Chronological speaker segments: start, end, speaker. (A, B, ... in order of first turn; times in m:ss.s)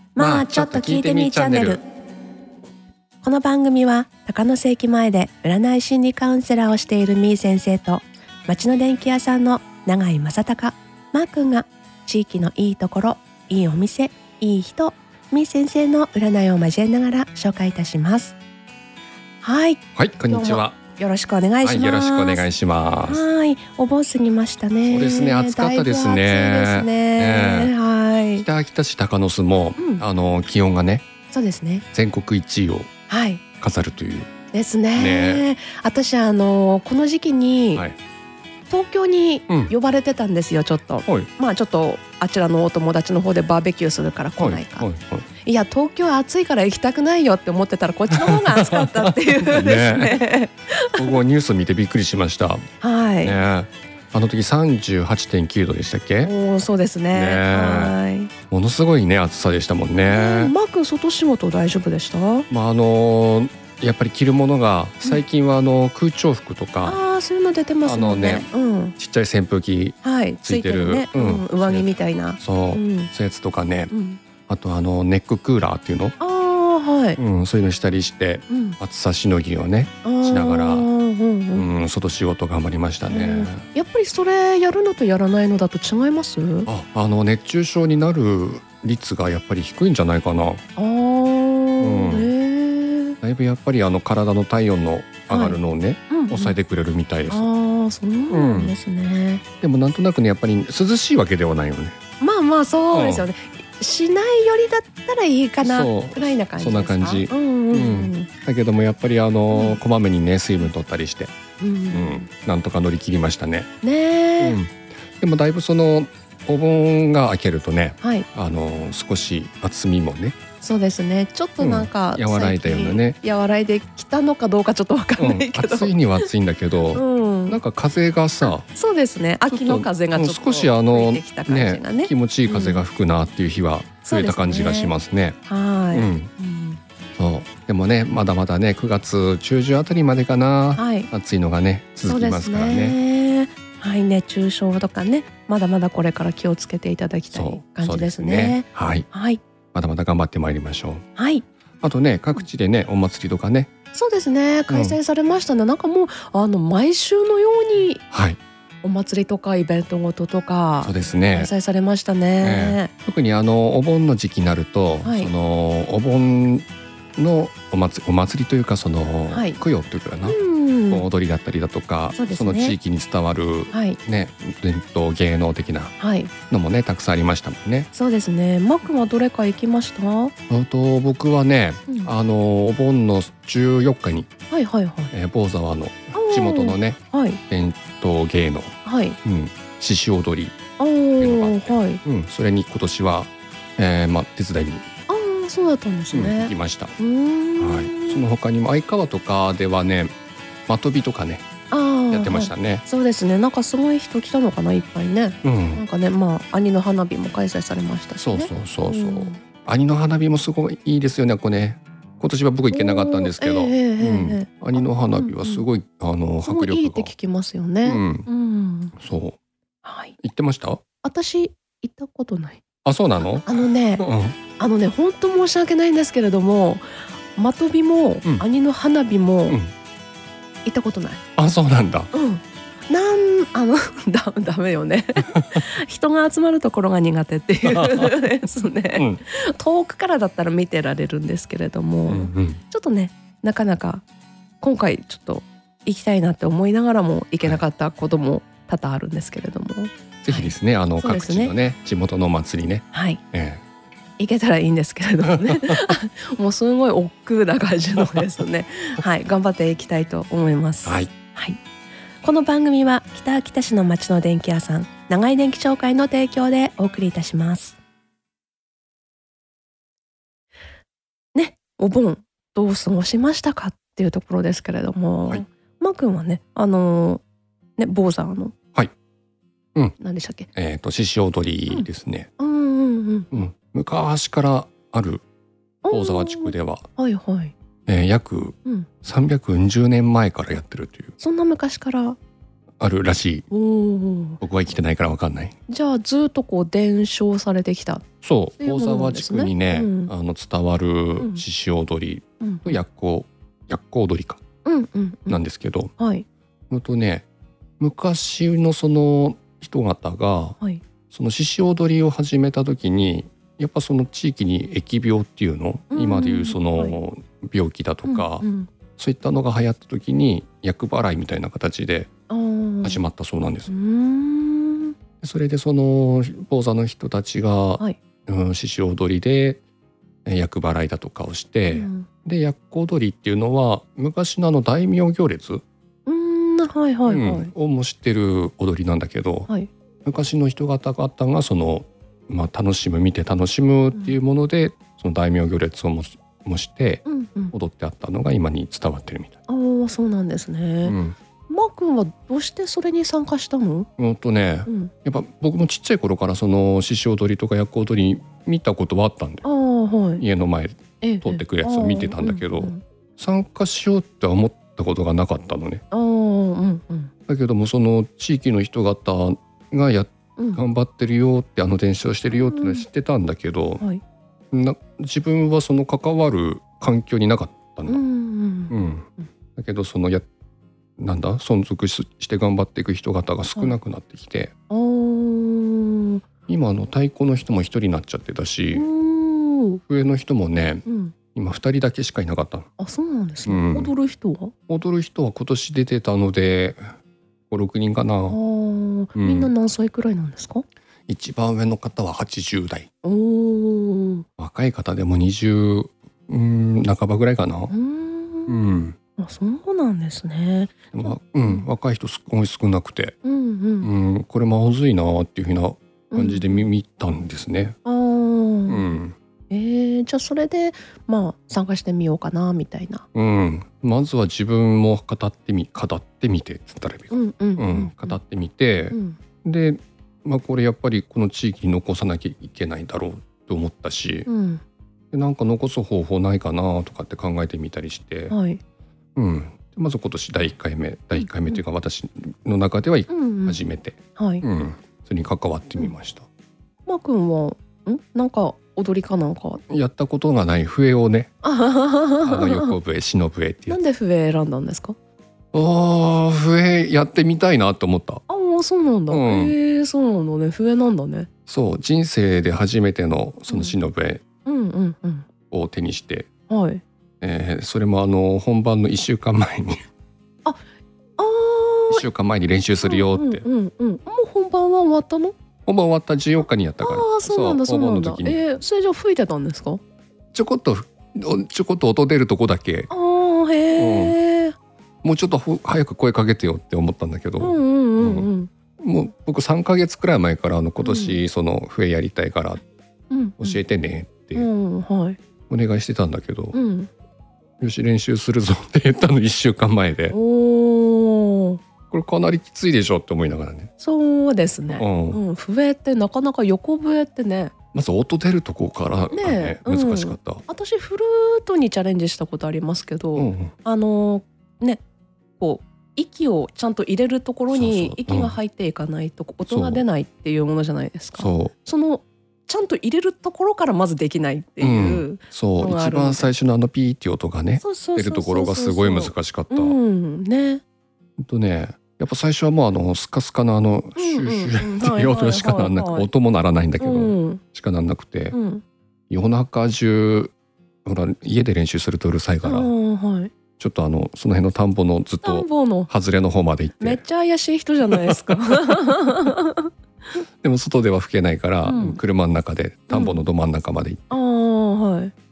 0:00.2-0:01.8 A
0:00.2-0:01.8 B
0:03.2-0:18.4 A
0:19.4-0:22.4 A
0:20.0-0:20.8 B
0:21.6-0:23.2 B
0:23.1-0:28.5 A
0:24.9-0:27.7 B
0:28.4-0:31.1 B
0:29.8-0:30.0 A
0:31.3-0:31.8 A
0:31.9-0:32.9 B
0:33.1-0:33.4 A
0:33.6-0:34.3 B
0:34.5-0:37.8 A
0:35.0-0:35.5 B
0:38.7-0:44.9 A
0:44.4-0:45.3 B
0:45.4-0:51.2 A
0:48.1-0:50.2 B
0:51.0-0:52.7 B
0:52.8-0:53.4 A
0:53.2-0:56.3 B
0:56.2-0:58.3 A
0:57.1-0:58.0 B
0:58.5-1:00.5 B
1:00.1-1:02.5 A
1:02.5-1:07.0 B
1:06.8-1:09.0 A
1:07.8-1:13.9 B
1:10.0-1:13.1 A
1:13.9-1:14.2 A
1:14.5-1:16.2 B
1:16.2-1:17.2 A
1:17.2-1:20.9 B
1:18.5-1:18.8 A
1:20.0-1:21.7 A
1:21.5-1:23.7 B
1:23.1-1:26.7 A
1:26.7-1:30.6 B
1:30.8-1:33.2 A
1:31.8-1:32.3 B
1:33.2-1:37.5 B
1:35.3-1:35.6 A
1:36.1-1:36.6 A
1:37.3-1:39.4 A
1:38.3-1:38.8 B
1:39.6-1:42.0 B
1:42.2-1:48.3 A
1:42.9-1:43.3 B
1:45.6-1:51.3 B
1:49.5-1:49.8 A
1:51.6-1:52.3 A
1:51.9-1:53.7 B
1:53.8-1:54.6 A
1:54.4-2:00.4 B
1:58.0-1:58.3 A
2:00.6-2:06.3 A
2:01.6-2:03.2 B
2:05.2-2:08.7 B
2:06.9-2:07.6 A
2:08.4-2:12.8 A
2:09.5-2:15.4 B
2:14.0-2:14.9 A
2:15.5-2:16.8 A
2:15.9-2:16.3 B
2:17.2-2:23.0 B
2:20.8-2:21.1 A
2:22.1-2:29.4 A
2:27.3-2:29.1 B
2:29.7-2:31.0 B
2:31.2-2:31.4 A
2:31.8-2:33.7 B
2:33.9-2:38.0 A
2:34.7-2:35.0 B
2:38.1-2:38.4 B
2:38.8-2:42.9 A
2:40.8-2:41.5 B
2:42.4-2:50.4 B
2:45.0-2:45.3 A
2:49.3-2:49.6 A
2:50.2-2:51.0 A
2:50.9-2:55.9 B
2:52.1-2:52.8 A
2:53.7-2:54.0 A
2:56.0-2:56.3 A
2:56.5-2:57.9 B
2:57.9-3:00.3 A
3:00.5-3:04.3 B
3:04.5-3:05.1 A
3:05.1-3:10.6 B
3:06.1-3:07.4 A
3:08.8-3:09.2 A
3:10.8-3:12.0 A
3:11.2-3:14.9 B
3:15.1-3:18.2 A
3:16.1-3:17.0 B
3:17.6-3:20.2 B
3:20.7-3:21.5 B
3:21.7-3:29.4 A
3:22.1-3:22.8 B
3:25.4-3:25.8 B
3:28.2-3:37.1 B
3:32.7-3:35.7 A
3:36.4-3:39.0 A
3:37.8-3:38.3 B
3:39.0-3:39.4 B
3:39.8-3:40.2 A
3:40.2-3:40.8 B
3:41.0-3:42.6 A
3:42.8-3:44.4 B
3:43.2-3:44.1 A
3:44.6-3:49.6 A
3:49.5-3:49.7 B
3:50.6-3:51.2 A
3:51.4-3:52.1 B
3:52.1-4:04.0 A
3:55.2-3:55.6 B
3:57.6-3:58.1 B
3:58.9-3:59.2 B
4:02.1-4:02.6 B
4:04.6-4:11.5 A
4:10.2-4:13.6 B
4:12.9-4:13.2 A
4:14.2-4:21.6 A
4:15.3-4:15.8 B
4:20.8-4:21.1 B
4:22.2-4:27.8 A
4:31.4-4:37.2 A
4:37.8-4:38.5 A
4:40.0-4:40.5 A
4:40.6-4:42.3 B
4:42.4-4:43.3 A
4:43.3-4:45.2 B
4:45.8-4:47.6 A
4:45.9-4:46.9 B
4:47.9-4:51.1 B
4:51.2-4:52.2 A
4:52.8-4:53.5 B
4:53.5-4:54.4 A
4:54.4-4:55.6 B
4:55.7-4:58.0 A
4:58.2-5:04.4 B
4:58.6-5:00.1 A
5:01.2-5:01.4 A
5:02.4-5:02.8 A
5:04.6-5:05.4 A
5:05.3-5:05.9 B
5:06.0-5:06.3 A
5:06.7-5:07.3 B
5:07.8-5:10.6 B
5:11.1-5:18.4 B
5:15.9-5:17.0 A
5:18.1-5:18.7 A
5:19.0-5:22.1 B
5:22.3-5:23.0 A
5:22.8-5:23.7 B
5:23.7-5:24.9 A
5:25.2-5:29.6 B
5:30.3-5:35.6 B
5:31.7-5:32.1 A
5:36.1-5:37.5 A
5:37.1-5:39.5 B
5:40.0-5:49.4 B
5:47.1-5:47.5 A
5:49.5-5:51.0 A
5:50.8-5:51.2 B
5:51.5-5:53.9 A
5:54.0-5:59.4 B
5:54.7-5:54.9 A
5:59.4-6:00.2 A
6:00.2-6:05.8 B
6:01.0-6:02.8 A
6:05.9-6:07.1 A
6:07.3-6:13.8 B
6:12.3-6:12.9 A
6:14.5-6:18.0 B
6:17.9-6:19.3 A
6:18.7-6:20.3 B
6:21.0-6:24.5 B
6:24.7-6:26.2 A
6:26.5-6:28.9 B
6:28.7-6:29.8 A
6:29.9-6:32.7 B
6:30.9-6:31.2 A
6:32.8-6:34.5 A
6:33.4-6:33.9 B
6:34.7-6:36.8 B
6:37.5-6:38.4 B
6:38.3-6:40.6 A
6:39.2-6:39.5 B
6:41.1-6:42.9 B
6:43.0-6:44.3 A
6:44.4-6:47.7 B
6:47.7-6:48.6 A
6:48.5-6:49.0 B
6:49.2-6:51.7 A
6:50.9-6:53.2 B
6:53.2-6:53.9 A
6:53.8-6:57.8 B
6:56.1-6:56.7 A
6:57.8-6:58.9 A
6:58.7-6:59.2 B
6:59.5-7:03.0 A
7:03.1-7:14.3 B
7:07.1-7:08.2 A
7:08.9-7:09.2 A
7:14.3-7:14.6 A
7:15.1-7:18.4 B
7:18.3-7:18.6 A
7:19.2-7:26.3 B
7:21.1-7:21.6 A
7:23.1-7:23.6 A
7:24.2-7:24.4 A
7:26.9-7:29.6 A
7:29.7-7:31.3 B
7:31.4-7:32.7 A
7:32.2-7:33.8 B
7:33.7-7:35.0 A
7:35.5-7:38.2 B
7:38.3-7:41.3 A
7:39.1-7:39.6 B
7:41.5-7:44.2 B
7:43.5-7:43.8 A
7:44.4-7:45.3 A
7:45.5-7:46.3 B
7:46.5-7:46.8 A
7:47.2-7:49.8 B
7:51.2-7:52.0 A
7:51.9-7:53.4 B
7:52.8-7:55.3 A
7:55.7-7:58.4 B
7:56.8-7:59.8 A
8:00.3-8:02.9 B
8:02.9-8:04.6 A
8:03.8-8:04.2 B
8:05.0-8:12.6 B
8:07.4-8:08.5 A
8:10.8-8:11.2 A
8:13.1-8:13.6 A
8:13.4-8:14.5 B
8:14.3-8:15.2 A
8:15.5-8:16.6 B
8:16.5-8:16.9 A
8:17.6-8:20.2 B
8:20.1-8:21.6 A
8:21.9-8:23.7 B
8:23.8-8:27.5 A
8:24.7-8:25.2 B
8:27.7-8:30.4 B
8:29.1-8:34.8 A
8:33.2-8:33.5 B
8:35.4-8:46.3 A
8:37.5-8:38.4 B
8:39.5-8:39.8 B
8:41.2-8:41.5 B
8:44.6-8:49.8 B
8:47.6-8:50.6 A
8:51.2-8:58.4 B
8:54.0-8:56.1 A
8:56.8-8:57.4 A
8:58.3-8:58.6 A
8:59.1-9:00.3 B
9:00.8-9:02.7 B
9:02.4-9:03.3 A
9:03.6-9:07.0 B
9:05.2-9:05.9 A
9:06.8-9:09.7 A
9:07.9-9:08.8 B
9:10.4-9:14.2 B
9:11.6-9:12.0 A
9:12.9-9:13.2 A
9:14.1-9:15.1 A